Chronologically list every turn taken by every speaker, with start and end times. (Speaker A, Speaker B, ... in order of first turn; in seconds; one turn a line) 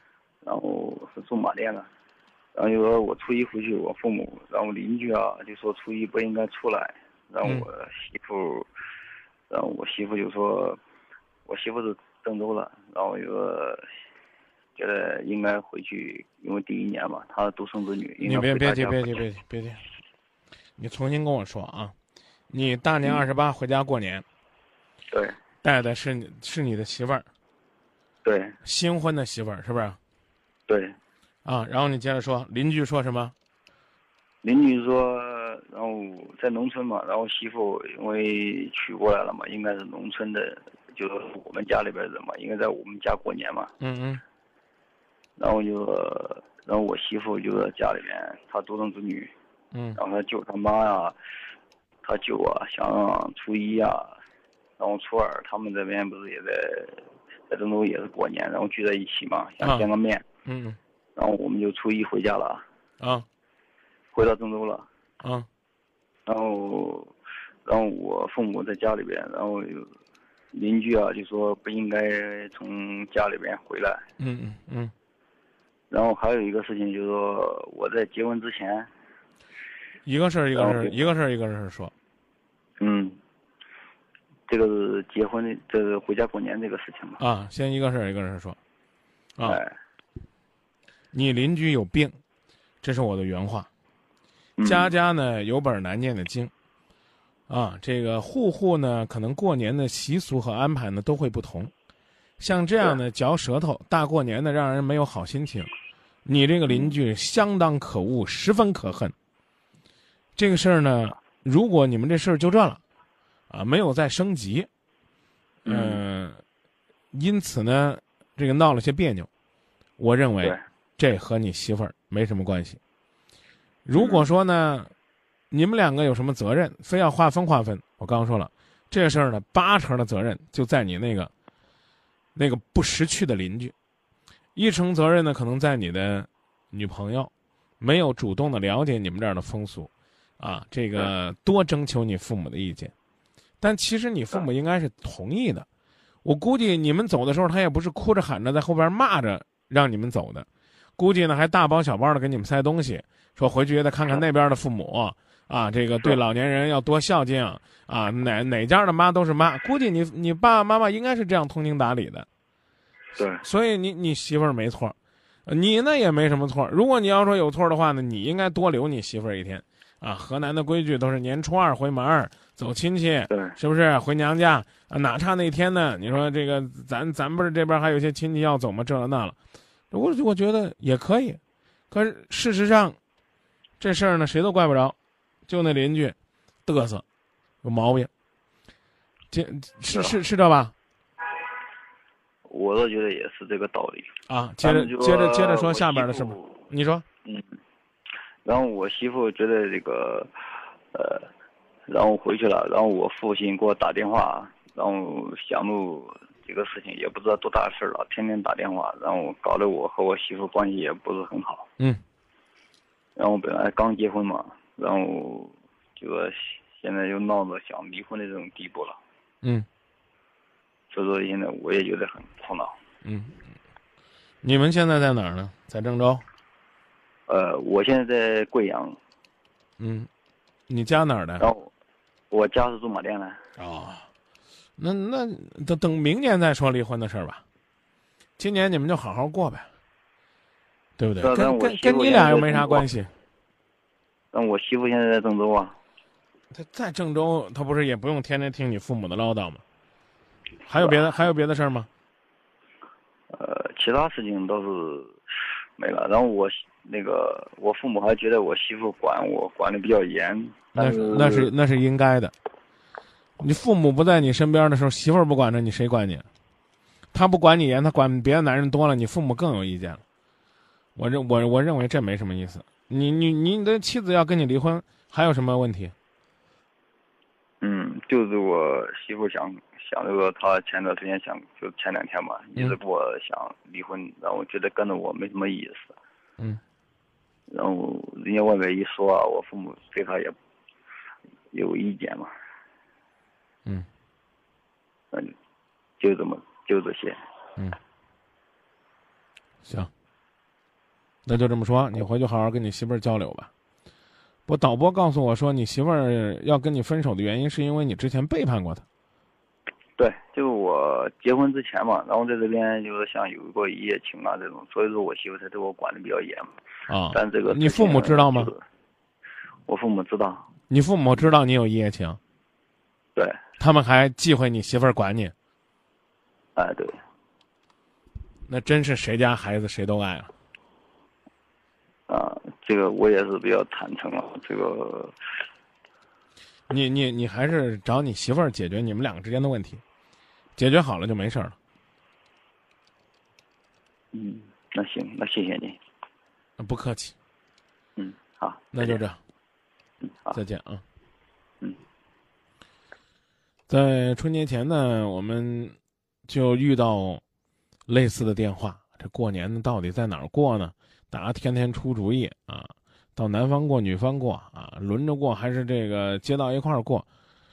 Speaker A: 0.4-1.9
Speaker A: 2.5-8.7
Speaker A: 9.5-10.8
Speaker A: 11.4-13.8
Speaker A: 14.8-19.2
Speaker B: 18.2-19.8
Speaker B: 20.8-21.9
Speaker B: 22.5-24.2
Speaker B: 25.6-27.2
Speaker A: 28.2-28.6
Speaker B: 28.6-30.0
Speaker A: 30.7-30.9
Speaker B: 31.4-33.3
Speaker A: 34.4-43.7
Speaker B: 43.8-44.2
Speaker A: 45.4-49.3
Speaker B: 49.7-50.0
Speaker A: 50.0-51.1
Speaker A: 52.0-54.1
Speaker A: 54.8-60.2
Speaker B: 59.6-59.9
Speaker B: 60.5-60.8
Speaker A: 61.1-62.6
Speaker B: 63.0-63.2
Speaker A: 64.1-64.8
Speaker B: 65.2-65.5
Speaker A: 66.3-67.1
Speaker A: 67.6-69.9
Speaker A: 70.5-74.0
Speaker B: 74.2-74.9
Speaker A: 75.9-78.9
Speaker B: 80.0-81.9
Speaker A: 80.5-81.0
Speaker A: 82.8-83.2
Speaker A: 84.5-87.2
Speaker B: 87.2-88.6
Speaker A: 89.4-89.7
Speaker B: 91.1-92.2
Speaker B: 92.8-93.7
Speaker A: 94.6-94.9
Speaker B: 94.6-96.5
Speaker B: 97.5-101.7
Speaker B: 102.4-105.7
Speaker B: 106.2-109.1
Speaker A: 106.7-106.9
Speaker B: 110.3-112.8
Speaker B: 113.5-114.7
Speaker A: 115.6-116.0
Speaker B: 115.7-116.4
Speaker B: 117.1-119.3
Speaker B: 120.0-122.8
Speaker B: 123.8-124.9
Speaker A: 123.9-124.3
Speaker B: 125.5-131.3
Speaker B: 132.3-133.7
Speaker B: 134.5-142.9
Speaker B: 143.6-145.7
Speaker B: 146.2-150.5
Speaker B: 151.0-162.3
Speaker A: 163.2-163.4
Speaker B: 163.4-164.9
Speaker B: 165.5-179.3
Speaker A: 173.3-173.6
Speaker B: 179.9-181.4
Speaker B: 181.9-183.0
Speaker B: 183.8-187.0
Speaker B: 187.6-188.1
Speaker B: 189.3-190.7
Speaker A: 189.9-190.2
Speaker A: 192.5-196.6
Speaker B: 194.3-197.0
Speaker A: 198.4-200.3
Speaker A: 200.9-201.3
Speaker A: 201.9-211.7
Speaker A: 213.2-219.0
Speaker A: 220.9-222.7
Speaker B: 223.0-223.4
Speaker B: 224.4-226.2
Speaker A: 227.3-229.0
Speaker B: 229.8-230.1
Speaker B: 230.7-231.4
Speaker A: 231.4-231.7
Speaker A: 232.3-233.4
Speaker B: 233.6-234.1
Speaker B: 234.8-237.4
Speaker B: 238.4-239.7
Speaker B: 241.0-243.1
Speaker A: 241.2-242.8
Speaker A: 244.3-245.8
Speaker B: 246.5-249.6
Speaker B: 250.7-251.9
Speaker A: 250.8-251.0
Speaker A: 253.3-255.2
Speaker A: 255.8-261.5
Speaker B: 260.8-262.3
Speaker B: 263.4-266.2
Speaker B: 267.1-270.0
Speaker B: 270.9-275.9
Speaker A: 277.6-286.0
Speaker A: 287.5-290.3
Speaker A: 291.5-292.3
Speaker A: 296.0-297.2
Speaker B: 299.6-299.9
Speaker B: 301.2-303.5
Speaker B: 304.5-308.8
Speaker A: 310.0-316.5
Speaker B: 316.9-318.5
Speaker A: 317.1-318.6
Speaker A: 319.7-320.5
Speaker B: 320.7-322.2
Speaker B: 323.6-325.3
Speaker A: 326.6-327.0
Speaker B: 328.5-330.3
Speaker A: 332.1-335.1
Speaker B: 336.7-339.8
Speaker B: 340.6-341.6
Speaker A: 344.1-345.8
Speaker B: 346.6-347.1
Speaker A: 348.0-349.0
Speaker B: 348.7-349.2
Speaker B: 350.3-350.8
Speaker B: 353.7-355.8
Speaker B: 356.3-357.2
Speaker B: 357.9-367.1